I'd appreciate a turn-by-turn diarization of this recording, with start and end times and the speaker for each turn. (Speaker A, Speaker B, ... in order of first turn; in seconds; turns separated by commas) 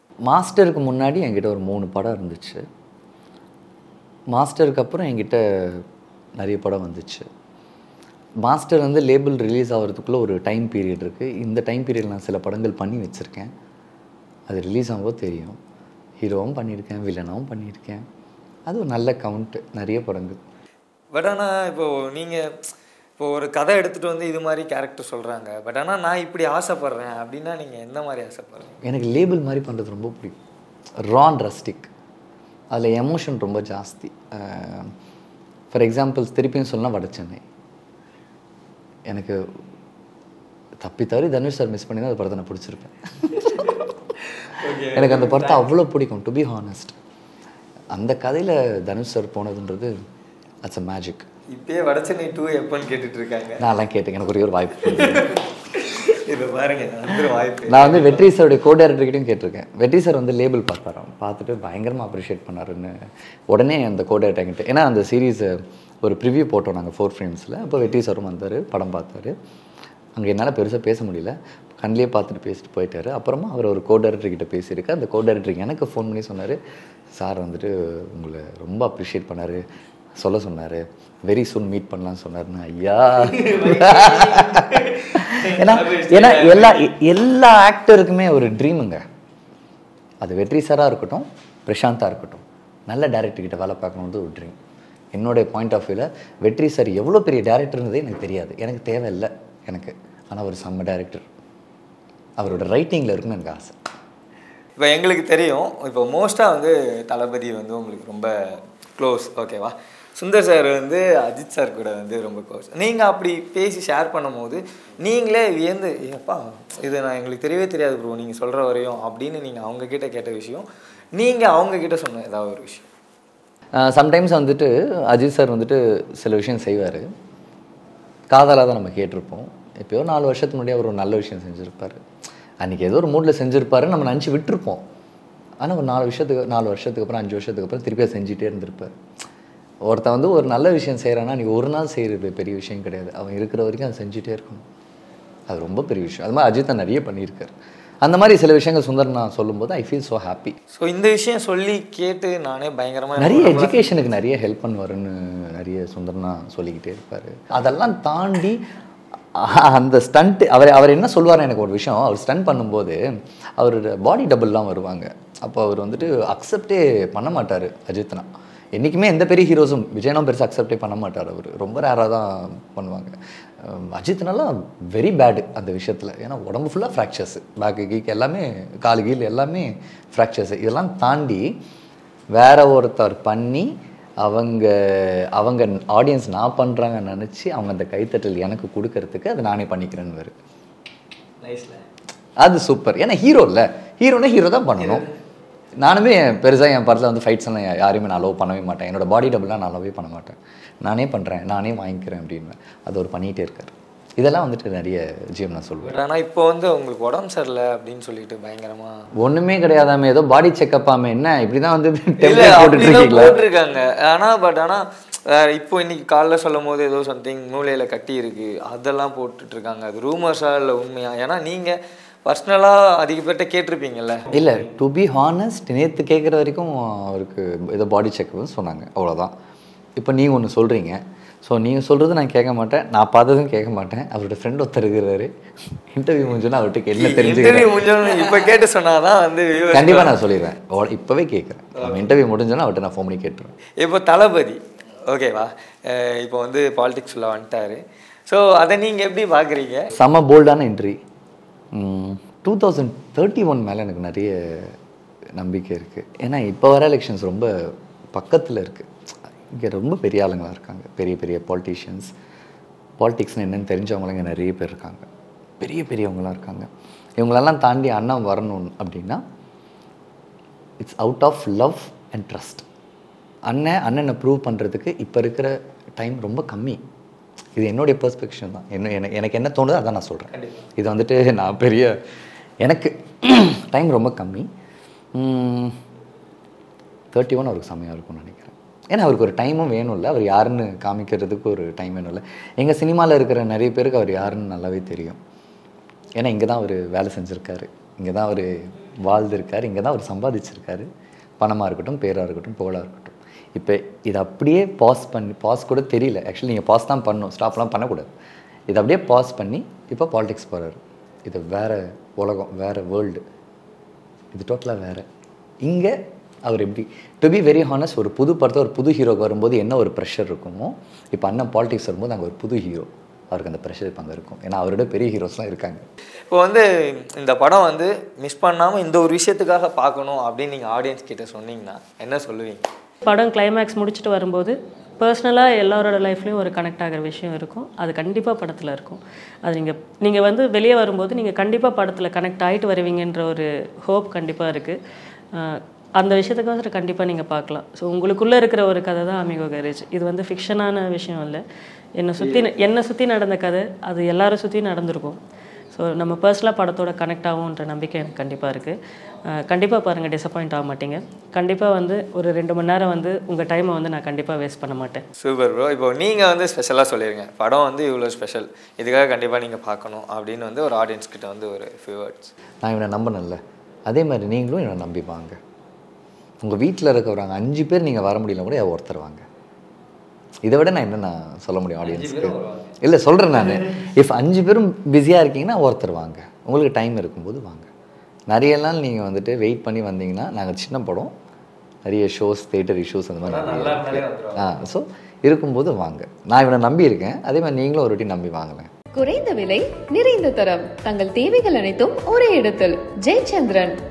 Speaker A: 0.2-2.6, Speaker A: 4.3-5.8, Speaker A: 6.4-7.3, Speaker A: 8.4-13.5, Speaker A: 14.5-15.6, Speaker A: 16.2-18.0, Speaker A: 18.7-20.4, Speaker B: 21.1-22.4, Speaker B: 23.2-28.8, Speaker A: 28.8-30.4, Speaker A: 31.1-31.9, Speaker A: 32.7-34.9, Speaker A: 35.7-37.4, Speaker A: 39.1-39.4, Speaker A: 40.8-43.5, Speaker B: 44.4-45.6, Speaker A: 44.9-47.0, Speaker A: 47.9-49.9, Speaker A: 50.6-51.3, Speaker B: 51.5-53.6, Speaker A: 53.6-55.4, Speaker B: 54.9-58.3, Speaker A: 57.7-62.9, Speaker A: 63.5-69.3, Speaker A: 70.2-76.6, Speaker A: 77.1-79.6, Speaker A: 80.2-84.6, Speaker B: 83.2-86.9, Speaker A: 85.1-89.0, Speaker A: 90.2-94.5, Speaker A: 95.1-101.2, Speaker A: 102.4-103.8, Speaker B: 104.8-122.9, Speaker A: 123.7-127.1, Speaker A: 128.3-132.0, Speaker A: 132.6-134.8, Speaker A: 135.6-138.9, Speaker A: 139.9-144.6, Speaker A: 145.5-150.6, Speaker B: 150.7-153.9, Speaker A: 153.2-158.6, Speaker A: 159.4-163.0, Speaker A: 163.6-181.5, Speaker A: 182.3-190.3, Speaker B: 191.4-191.8, Speaker A: 192.4-195.1, Speaker B: 194.8-195.1, Speaker A: 195.8-205.9, Speaker B: 205.8-209.0, Speaker A: 209.2-213.4, Speaker B: 212.2-214.8, Speaker B: 215.3-224.6, Speaker A: 224.3-229.3, Speaker A: 230.0-235.3, Speaker A: 235.9-237.8, Speaker B: 236.9-240.2, Speaker A: 239.7-243.5, Speaker B: 241.8-242.1, Speaker B: 243.8-249.9, Speaker A: 249.9-251.0, Speaker A: 251.7-254.7, Speaker A: 255.4-257.5, Speaker A: 258.1-258.9, Speaker A: 259.5-262.1, Speaker A: 263.0-265.0, Speaker A: 265.6-269.2, Speaker A: 270.8-272.6, Speaker A: 273.5-276.8, Speaker A: 277.6-281.9, Speaker B: 280.3-280.6, Speaker A: 282.6-284.5, Speaker A: 285.1-285.8, Speaker A: 287.1-295.2, Speaker A: 296.2-298.5, Speaker A: 299.0-300.9, Speaker A: 301.4-308.1, Speaker A: 308.7-313.2, Speaker A: 314.3-315.0, Speaker A: 315.6-315.9, Speaker A: 316.4-325.9, Speaker B: 326.3-332.6, Speaker C: 333.0-344.8, Speaker C: 345.3-351.4, Speaker C: 352.0-355.2, Speaker B: 352.2-352.5, Speaker C: 355.7-358.8, Speaker C: 359.3-365.0, Speaker B: 365.2-372.3, Speaker A: 372.6-375.4, Speaker A: 376.4-379.2, Speaker A: 380.4-387.7, Speaker B: 381.8-382.8, Speaker A: 388.3-391.1, Speaker A: 391.8-398.7, Speaker B: 393.2-394.6, Speaker D: 398.9-403.8